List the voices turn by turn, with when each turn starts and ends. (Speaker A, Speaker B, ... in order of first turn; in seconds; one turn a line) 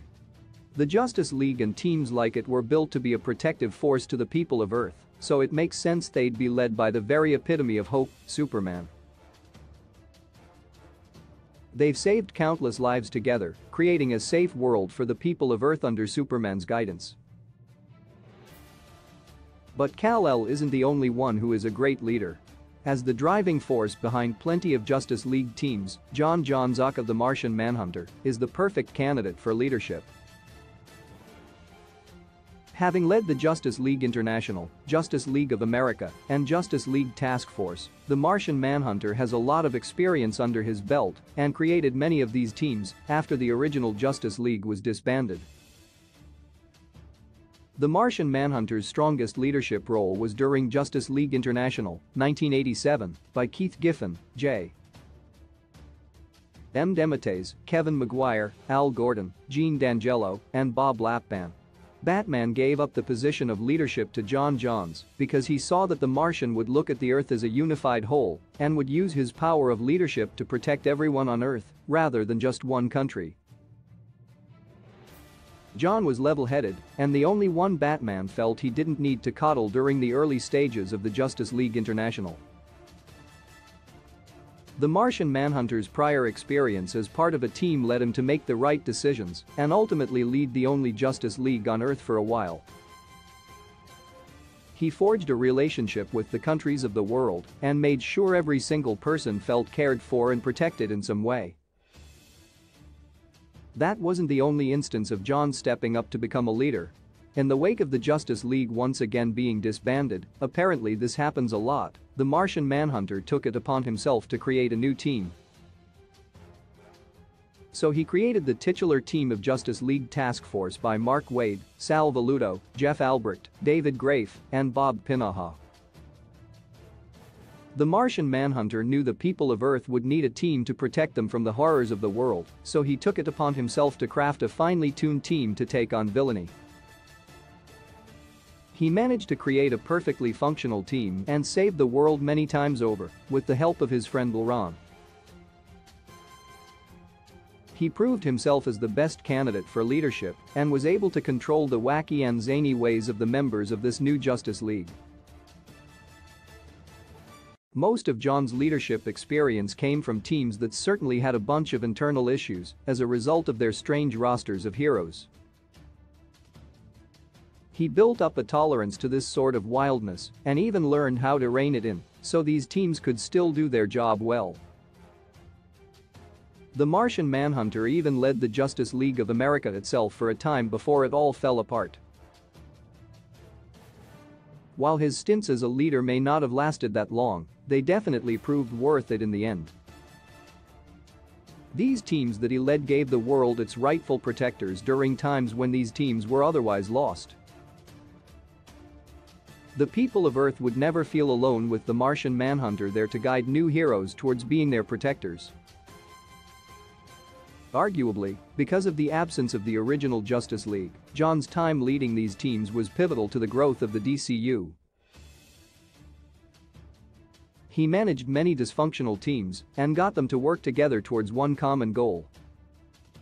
Speaker A: 0.7-8.9
Speaker A: 11.7-17.2
Speaker A: 19.8-30.1
Speaker A: 32.7-45.5
Speaker A: 47.8-54.8
Speaker A: 56.7-73.4
Speaker A: 75.7-82.4
Speaker A: 84.8-92.7
Speaker A: 94.8-101.6
Speaker A: 103.8-115.4
Speaker A: 117.7-125.6
Speaker A: 127.8-136.5
Speaker A: 138.7-144.8
Speaker A: 147.7-155.0
Speaker A: 157.7-165.3
Speaker A: 167.7-174.6
Speaker A: 176.7-182.0
Speaker A: 184.8-189.7
Speaker A: 191.7-197.4
Speaker A: 199.8-205.5
Speaker A: 207.7-214.8
Speaker A: 217.7-222.3